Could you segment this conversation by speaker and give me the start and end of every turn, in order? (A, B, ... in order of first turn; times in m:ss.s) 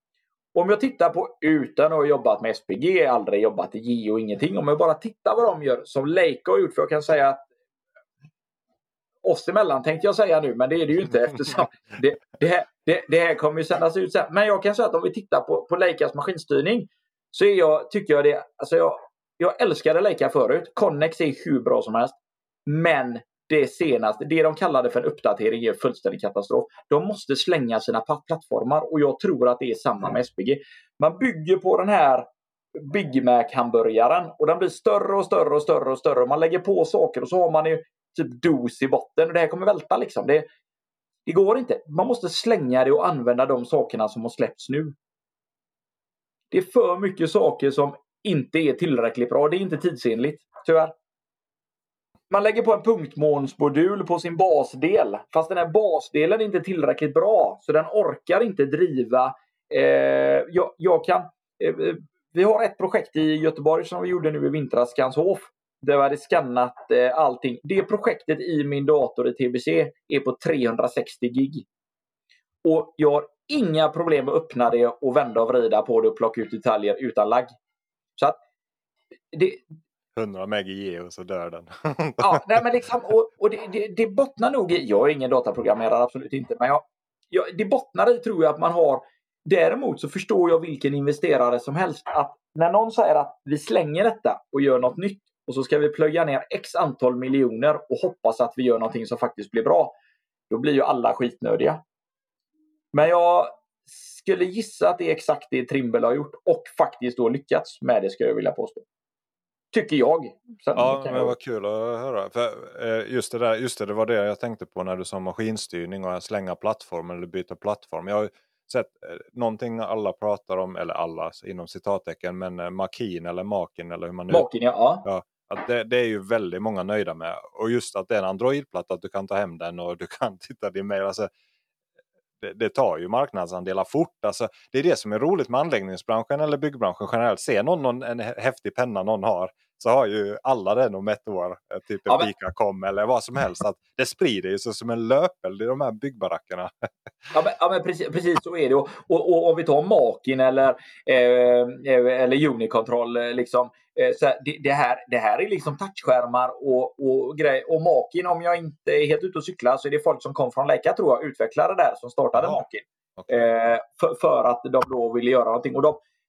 0:00.5-0:07.4 A
0:09.2-0:22.1 A
0:22.7-0:32.3 A
0:32.8-0:40.5 A
0:41.2-0:44.9 A
0:46.5-0:50.9 A
0:52.3-1:11.6 A
1:12.6-1:17.5 A
1:19.3-1:19.6 A
1:20.1-1:22.6 B
1:22.2-1:39.9 A
1:40.5-1:41.8 A
1:42.9-1:48.8 A
1:49.7-1:51.3 A
1:50.7-2:04.5 B
2:04.3-2:05.0 A
2:05.0-2:11.3 B
2:12.4-2:26.8 B
2:27.3-2:46.0 A